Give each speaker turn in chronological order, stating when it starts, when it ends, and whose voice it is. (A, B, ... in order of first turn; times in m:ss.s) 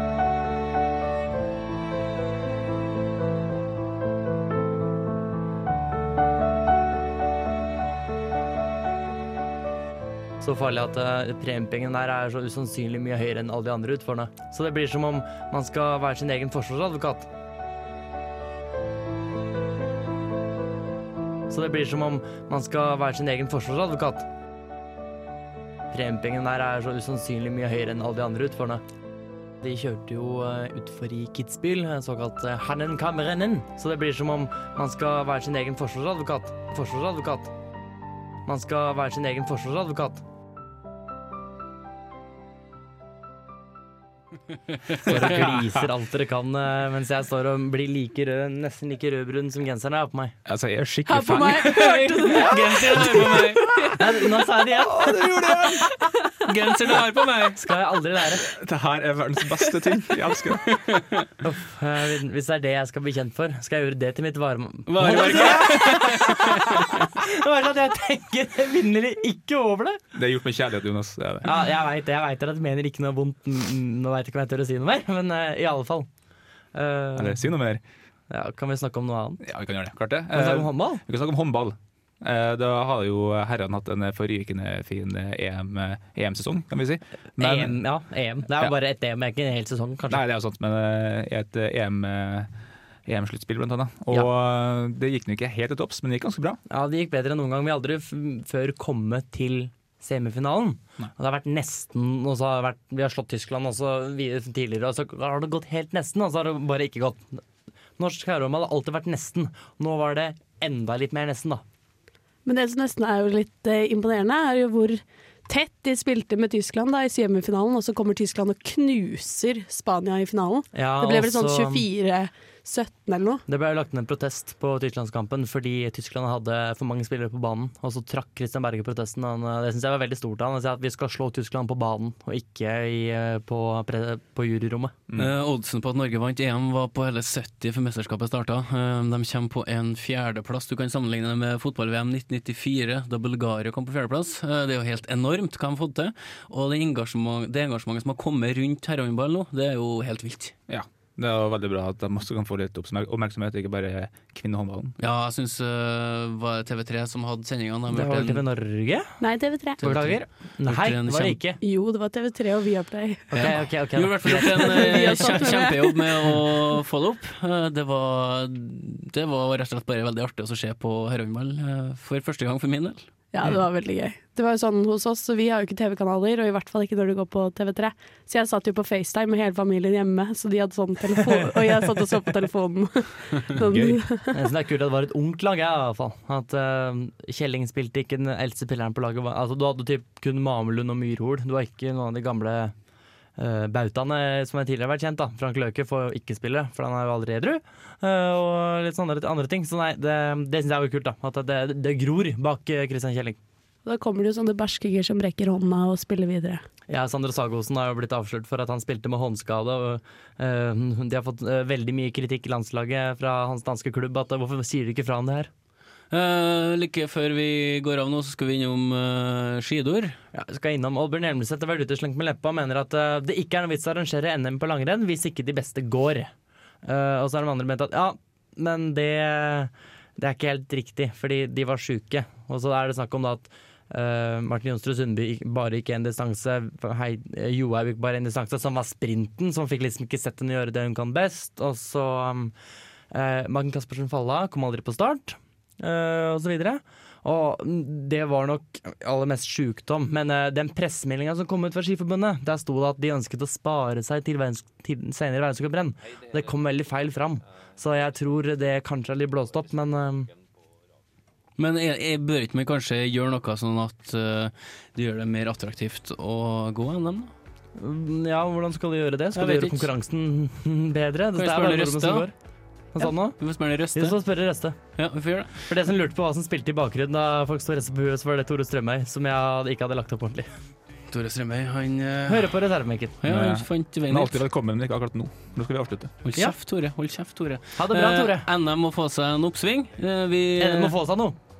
0:10.4-0:17.3 A
0:21.5-0:24.3 A
0:25.9-0:28.8 A
0:29.6-0:37.5 A
0:38.4-0:40.2 A
0:45.0-0:45.2 B
0:45.0-0:50.4 A
0:50.4-0:53.8 C
0:51.0-0:52.6 D
0:51.5-0:53.6 B
0:53.3-0:53.9 D
0:53.9-0:55.7 A
0:54.7-0:55.9 C
0:56.4-0:57.6 B
0:57.5-0:58.4 A
0:58.5-1:00.8 C
1:00.7-1:01.3 B
1:01.4-1:10.0 A
1:04.9-1:07.1 B
1:10.1-1:11.5 C
1:11.4-1:16.1 A
1:16.7-1:17.5 A
1:17.2-1:17.8 C
1:18.3-1:19.4 A
1:19.4-1:27.7 C
1:20.3-1:21.0 A
1:27.4-1:30.2 A
1:30.1-1:32.5 C
1:33.0-1:36.6 C
1:36.7-1:47.4 A
1:48.0-1:51.6 A
1:52.4-2:03.4 D
2:00.7-2:01.8 A
2:03.5-2:14.9 A
2:15.2-2:30.5 B
2:30.7-2:34.9 C
2:35.0-2:38.4 B
2:37.9-2:39.1 A
2:39.2-2:39.8 D
2:39.8-2:41.6 A
2:39.8-2:41.4 B
2:41.6-2:43.3 D
2:43.3-2:45.4 A
2:43.3-2:53.0 B
2:44.3-2:46.2 D
2:53.3-3:04.4 D
3:03.6-3:04.0 C
3:04.3-3:12.7 A
3:13.4-3:23.4 A
3:23.8-3:26.6 D
3:26.9-3:35.5 A
3:36.1-3:40.2 B
3:40.3-3:46.3 A
3:46.8-4:02.5 A
4:03.1-4:20.3 A
4:21.6-4:27.3 B
4:27.8-4:32.3 A
4:29.3-4:29.9 B
4:31.4-4:32.3 B
4:32.9-4:33.4 A
4:33.0-4:34.2 B
4:33.9-4:34.8 A
4:35.0-4:35.7 B
4:35.7-4:40.5 A
4:41.1-4:42.6 B
4:42.3-4:43.2 A
4:43.2-4:44.4 B
4:43.2-4:46.2 C
4:46.2-4:51.0 B
4:47.8-4:48.5 A
4:50.6-4:51.4 A